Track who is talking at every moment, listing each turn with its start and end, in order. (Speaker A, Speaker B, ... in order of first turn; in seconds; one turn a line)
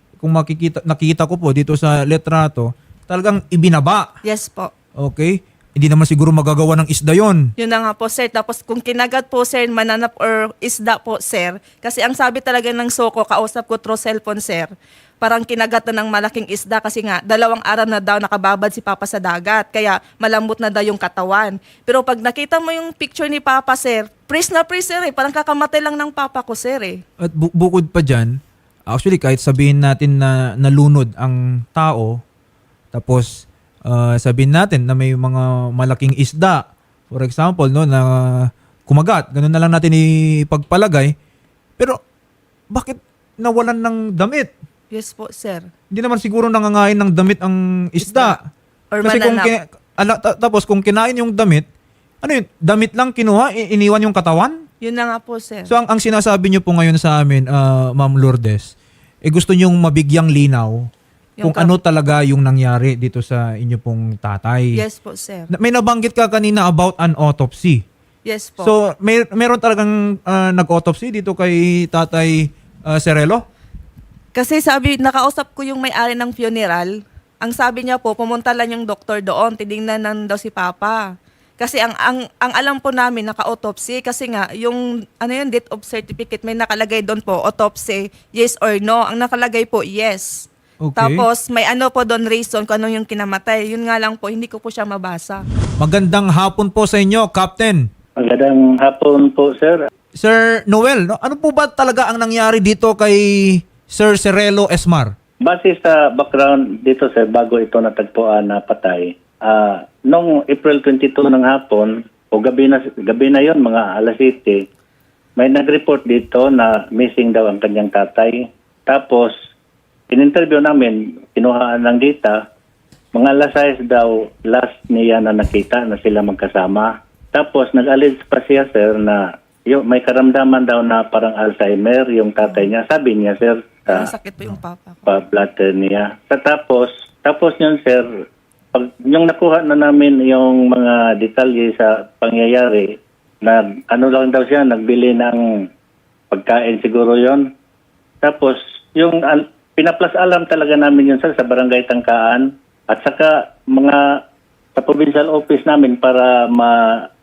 Speaker A: 0.2-4.1
Speaker B: 4.2-4.7
Speaker A: 5.0-7.5
Speaker B: 7.6-14.7
Speaker B: 15.2-27.0
Speaker A: 27.2-28.4
Speaker A: 28.9-32.2
Speaker A: 32.9-41.1
Speaker A: 42.7-44.5
Speaker B: 44.9-45.7
Speaker A: 45.9-48.4
Speaker B: 48.0-48.4
Speaker B: 48.9-49.5
Speaker A: 49.0-51.6
Speaker A: 52.2-54.6
Speaker B: 54.8-55.7
Speaker A: 55.7-60.9
Speaker B: 61.4-61.8
Speaker A: 61.4-64.8
Speaker B: 64.8-65.5
Speaker A: 65.5-67.8
Speaker B: 68.3-68.7
Speaker A: 68.6-73.4
Speaker B: 74.3-81.0
Speaker B: 81.6-95.4
Speaker A: 90.8-91.3
Speaker A: 95.8-97.9
Speaker C: 98.2-99.8
Speaker A: 100.2-105.1
Speaker C: 105.4-114.7
Speaker C: 115.4-119.3
Speaker C: 120.1-122.4
Speaker C: 123.1-134.1
Speaker B: 133.9-135.1
Speaker C: 135.1-138.1
Speaker C: 138.7-142.9
Speaker C: 143.4-145.4
Speaker C: 146.3-147.5
Speaker C: 148.2-154.0
Speaker C: 154.8-157.0